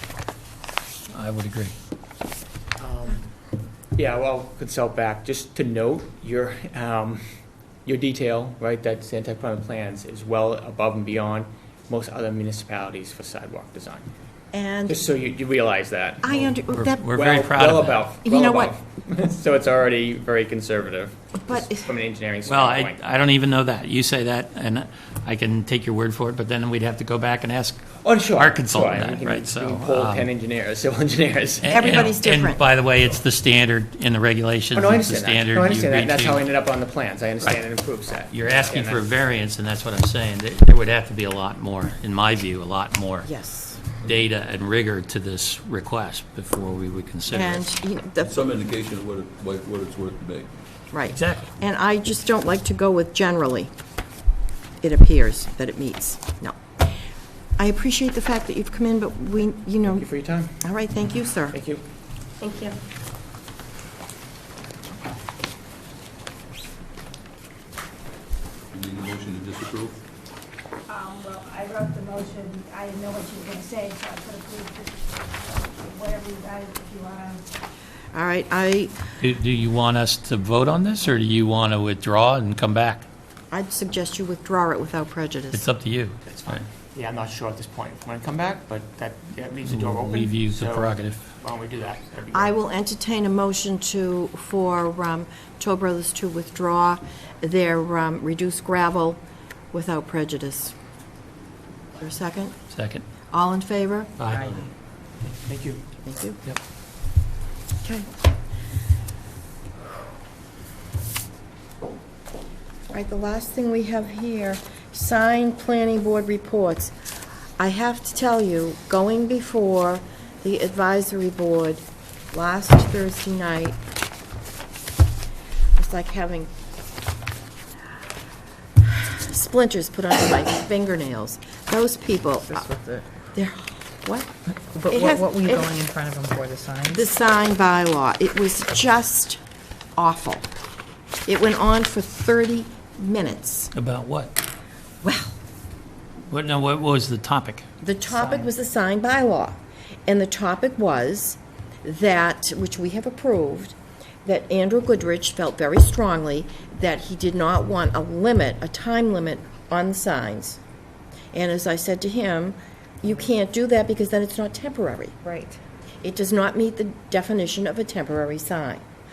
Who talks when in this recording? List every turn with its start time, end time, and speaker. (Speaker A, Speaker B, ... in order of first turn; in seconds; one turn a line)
Speaker A: 1.1-1.7
Speaker B: 2.8-3.3
Speaker B: 4.0-7.2
Speaker B: 7.8-14.1
Speaker C: 14.5-15.0
Speaker B: 14.9-23.0
Speaker C: 16.2-17.1
Speaker A: 16.7-18.1
Speaker C: 18.2-18.7
Speaker C: 21.4-21.9
Speaker A: 22.4-30.3
Speaker B: 28.0-31.8
Speaker A: 31.6-36.5
Speaker C: 31.7-32.6
Speaker B: 34.7-39.0
Speaker A: 38.3-43.3
Speaker C: 43.2-43.8
Speaker A: 44.0-47.7
Speaker C: 47.3-48.4
Speaker D: 48.2-50.5
Speaker C: 50.9-53.7
Speaker A: 51.1-51.5
Speaker C: 54.8-56.6
Speaker C: 57.6-60.1
Speaker B: 59.9-60.6
Speaker C: 60.6-61.6
Speaker B: 61.5-61.8
Speaker D: 68.7-70.0
Speaker E: 70.9-77.4
Speaker C: 78.1-79.0
Speaker A: 79.2-83.1
Speaker C: 83.5-85.7
Speaker A: 85.5-86.6
Speaker B: 86.3-92.5
Speaker A: 89.7-91.3
Speaker C: 92.3-99.2
Speaker C: 99.7-100.7
Speaker C: 102.0-102.5
Speaker A: 102.7-103.0
Speaker C: 103.3-104.2
Speaker A: 104.2-104.5
Speaker B: 105.2-105.8
Speaker C: 106.0-106.4
Speaker C: 112.9-116.9
Speaker C: 117.6-123.8
Speaker C: 125.8-126.5
Speaker C: 128.8-132.7
Speaker F: 132.5-133.1
Speaker C: 133.3-134.3
Speaker F: 134.7-137.0
Speaker C: 134.9-135.8
Speaker C: 136.9-139.4
Speaker C: 140.0-140.5
Speaker C: 141.3-143.7
Speaker A: 143.7-144.3
Speaker C: 145.0-145.3
Speaker A: 146.3-147.7
Speaker C: 147.8-160.6
Speaker F: 148.2-148.5
Speaker C: 161.3-165.2
Speaker F: 165.2-165.6
Speaker C: 166.0-168.8